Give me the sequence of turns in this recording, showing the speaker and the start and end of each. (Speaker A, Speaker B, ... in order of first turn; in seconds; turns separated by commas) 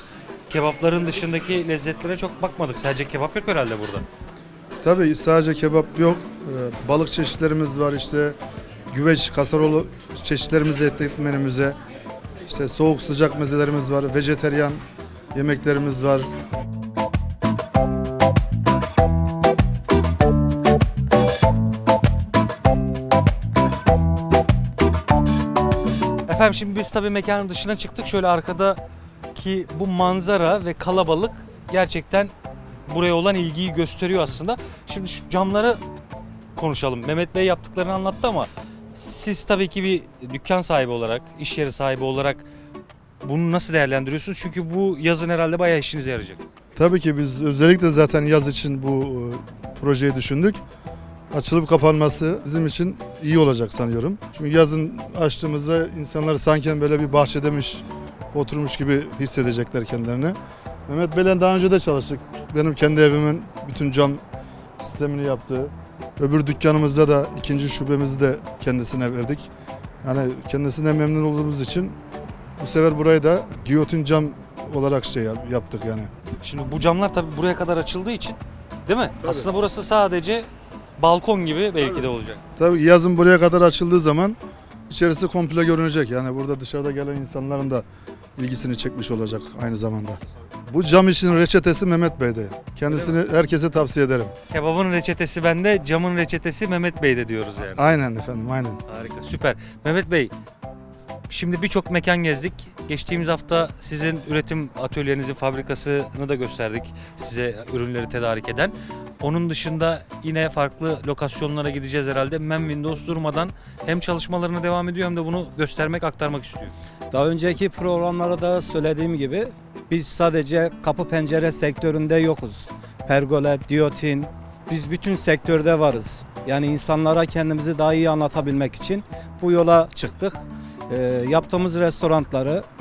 Speaker A: 0.5-4.0, Speaker B: 4.8-8.4, Speaker B: 8.9-11.8, Speaker B: 12.4-14.8, Speaker B: 15.3-16.3, Speaker A: 26.3-28.8, Speaker A: 29.3-32.3, Speaker A: 32.9-35.8, Speaker A: 36.5-42.5, Speaker A: 43.2-46.4, Speaker B: 46.8-50.6, Speaker B: 51.3-60.4, Speaker B: 60.9-64.2, Speaker B: 64.8-69.5, Speaker B: 70.0-72.0, Speaker B: 72.6-76.1, Speaker A: 76.4-82.4, Speaker B: 79.2-79.5, Speaker B: 82.6-84.4, Speaker B: 84.9-87.8, Speaker B: 88.4-94.3, Speaker A: 94.5-97.9, Speaker B: 97.8-98.8, Speaker A: 98.9-100.3, Speaker A: 101.3-116.8, Speaker C: 117.1-132.7